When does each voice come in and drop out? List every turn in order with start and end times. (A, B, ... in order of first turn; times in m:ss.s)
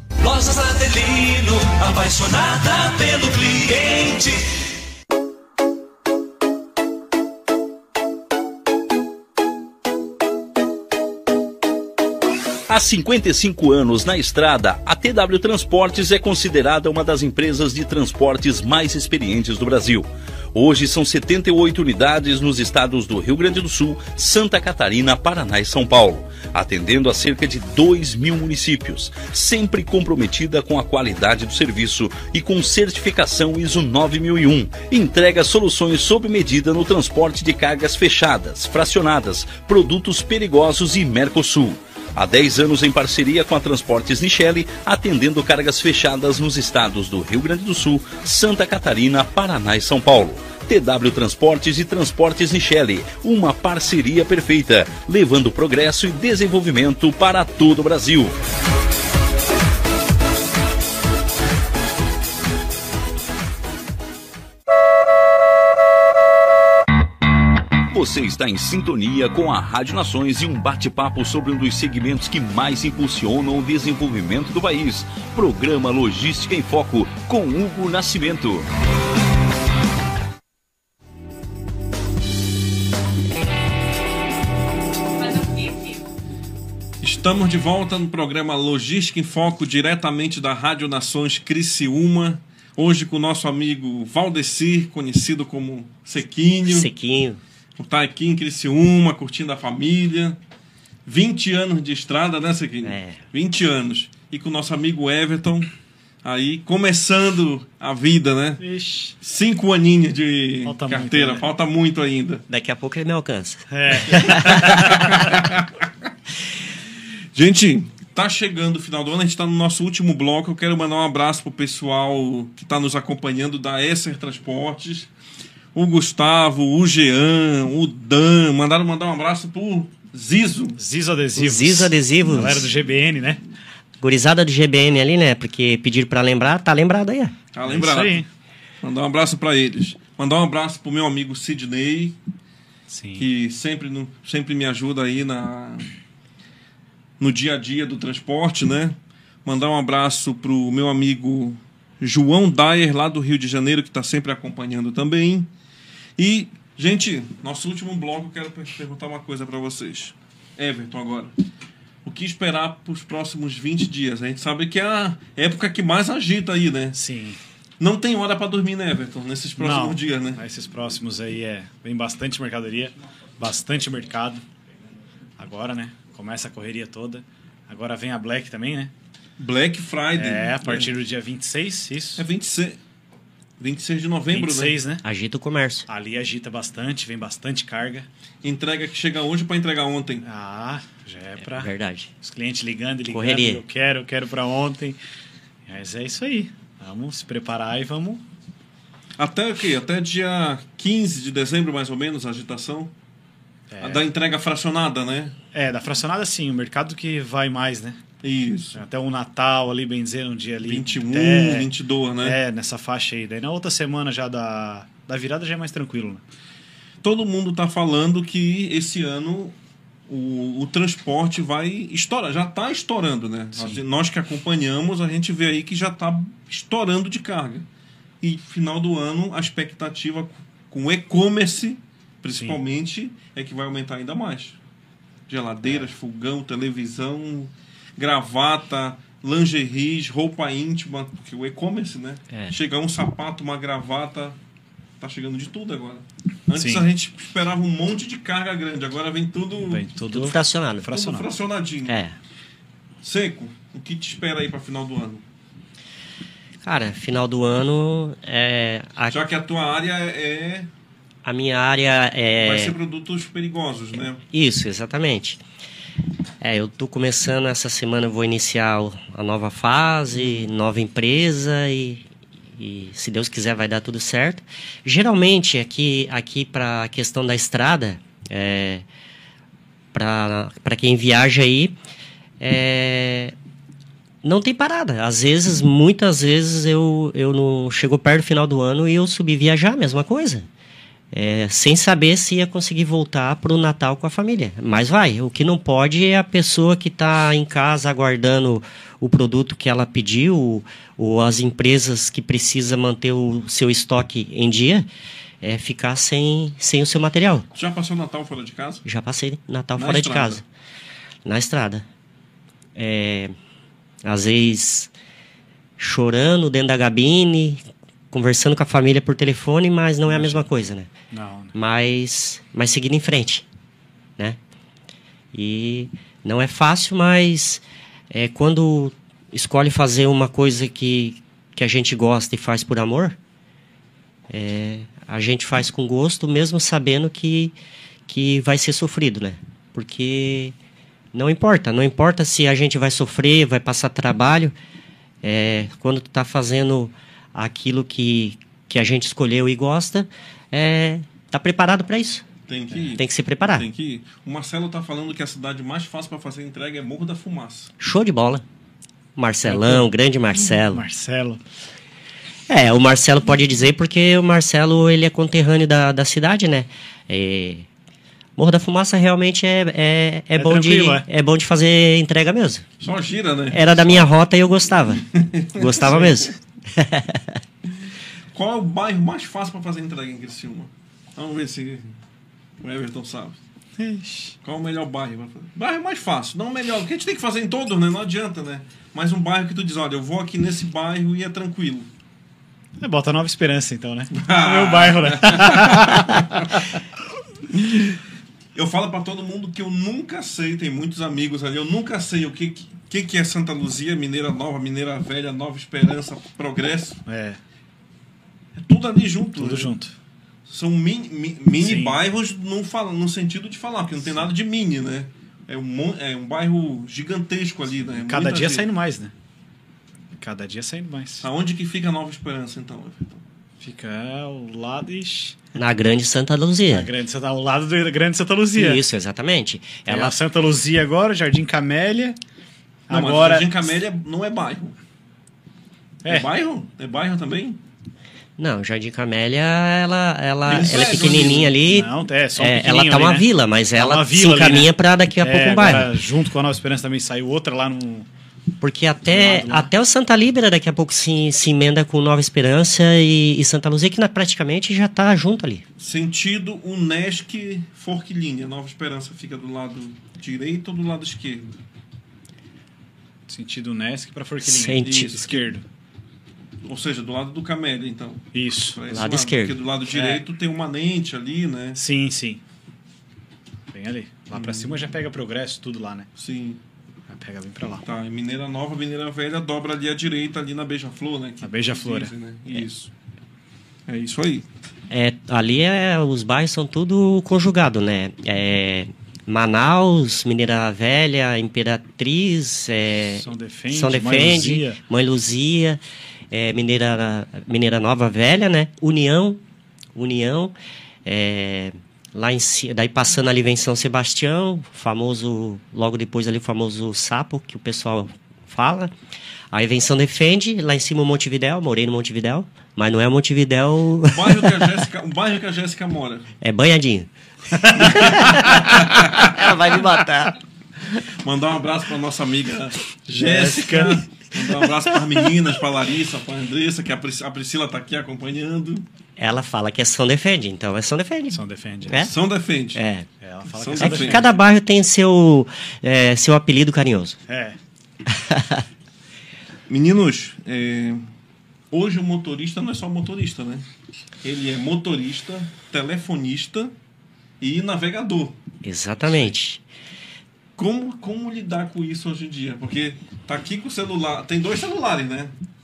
0:00.2-0:04.7 A
0:12.7-0:58.4 B
1:07.9-1:18.7 B
1:27.0-1:36.9 C
1:36.7-1:37.4 D
1:37.8-1:40.4 C
1:41.1-1:45.7 C
1:42.8-1:43.2 D
1:46.2-1:48.6 C
1:48.6-1:49.2 E
1:49.2-1:52.4 C
1:50.6-1:51.4 E
1:52.5-1:54.8 D
1:53.7-1:55.3 E
1:54.4-1:55.8 C
1:57.4-2:05.1 C
2:05.8-2:10.8 C
2:10.8-2:13.4 E
2:11.4-2:12.7 D
2:14.0-2:17.3 D
2:17.5-2:18.2 C
2:17.7-2:18.3 E
2:18.8-2:22.2 C
2:22.9-2:23.3 E
2:23.2-2:25.9 C
2:27.2-2:35.5 C
2:36.2-2:41.3 C
2:42.0-2:47.0 C
2:47.0-2:47.4 E
2:47.8-2:50.4 C
2:49.6-2:54.4 E
2:55.4-2:58.9 E
2:59.4-3:00.9 C
3:00.2-3:02.2 E
3:02.2-3:02.8 C
3:03.6-3:04.8 C
3:04.3-3:05.0 E
3:05.0-3:05.9 D
3:05.9-3:08.1 E
3:08.4-3:10.2 C
3:10.2-3:11.7 E
3:11.4-3:12.1 D
3:12.2-3:15.0 E
3:13.1-3:13.6 D
3:15.7-3:18.2 E
3:19.2-3:22.9 C
3:23.7-3:24.1 E
3:23.8-3:25.4 C
3:25.5-3:28.0 E
3:28.2-3:28.8 C
3:28.7-3:31.7 E
3:30.6-3:32.4 C
3:32.2-3:36.2 E
3:37.0-3:39.6 C
3:40.1-3:47.7 C
3:43.6-3:43.8 E
3:48.2-3:54.6 C
3:55.3-4:04.4 C
4:05.0-4:09.9 C
4:06.6-4:06.9 E
4:09.7-4:11.3 E
4:10.1-4:10.9 D
4:10.9-4:12.0 C
4:11.9-4:12.2 D
4:13.0-4:15.2 C
4:16.6-4:19.2 D
4:19.1-4:20.7 C
4:21.2-4:22.8 D
4:22.4-4:24.2 C
4:24.3-4:25.4 D
4:26.4-4:32.0 D
4:32.6-4:38.8 D
4:39.9-4:41.8 D
4:42.4-4:43.3 D
4:44.2-4:50.5 D
4:51.1-5:04.9 D
5:05.4-5:07.5 D
5:07.6-5:08.8 C
5:08.8-5:10.4 D
5:09.8-5:10.4 C
5:11.2-5:11.8 D
5:12.8-5:13.3 D
5:14.0-5:14.9 D
5:15.8-5:20.9 D
5:20.1-5:20.5 E
5:21.1-5:21.5 E
5:21.5-5:23.4 D
5:25.3-5:33.2 D
5:34.3-5:37.6 D
5:38.1-5:40.6 D
5:41.1-5:44.6 D
5:45.2-5:52.2 D
5:52.5-5:57.7 C
5:53.0-5:53.7 D
5:57.8-5:58.4 D
5:59.2-6:00.9 D
5:59.4-5:59.9 E
6:00.7-6:01.4 E
6:02.5-6:07.7 D
6:08.4-6:12.6 D
6:10.4-6:11.1 E
6:12.8-6:14.1 C
6:13.5-6:17.4 D
6:15.1-6:16.3 C
6:18.3-6:22.0 C
6:22.6-6:23.4 C
6:23.8-6:24.4 E
6:24.4-6:31.9 C
6:32.8-6:36.8 E
6:34.1-6:36.5 C
6:37.6-6:38.0 C
6:38.6-6:47.0 C
6:47.1-6:47.4 E
6:48.6-6:49.7 C
6:49.4-6:50.0 E
6:50.5-6:58.7 C
6:51.6-6:52.0 E
6:58.0-6:59.1 E
7:00.2-7:01.2 E
7:01.2-7:03.2 C
7:03.6-7:05.4 E
7:05.6-7:06.9 D
7:06.7-7:08.8 E
7:08.6-7:10.2 D
7:09.9-7:12.2 E
7:12.9-7:13.5 E
7:12.9-7:14.8 C
7:16.0-7:16.3 E
7:16.1-7:17.6 C
7:18.4-7:25.9 D
7:20.5-7:21.5 C
7:20.8-7:28.1 E
7:28.6-7:35.6 D
7:29.1-7:29.7 E
7:35.8-7:41.5 C
7:43.3-7:45.6 E
7:44.4-7:45.1 D
7:44.8-7:45.4 C
7:46.7-7:51.8 C
7:48.3-7:48.8 E
7:48.9-7:49.6 D
7:49.9-7:50.2 E
7:51.8-7:52.4 E
7:53.7-7:56.1 E
7:54.3-7:54.8 C
7:56.2-7:56.6 C
7:57.1-7:57.8 E
7:57.8-8:02.9 C
8:01.4-8:02.1 E
8:03.9-8:04.5 C
8:04.9-8:15.8 D
8:13.2-8:14.8 E
8:16.3-8:19.4 D
8:20.0-8:28.9 D
8:29.5-8:34.5 D
8:34.1-8:36.3 C
8:36.4-8:37.1 D
8:37.5-8:38.7 E
8:37.6-8:40.4 D
8:37.8-8:39.3 C
8:41.2-8:48.8 C
8:43.1-8:44.0 E
8:49.2-8:52.1 D
8:51.3-8:52.1 E
8:52.0-8:52.8 C
8:52.8-8:53.1 D
8:53.2-8:54.4 E
8:53.6-8:54.3 C
8:53.8-8:57.2 D
8:57.3-8:57.6 E
8:58.2-8:58.6 D
8:59.7-9:01.0 C
9:01.7-9:03.7 C
9:04.2-9:06.7 C
9:07.4-9:08.4 C
9:08.6-9:09.6 D
9:09.1-9:09.3 C
9:10.6-9:15.4 C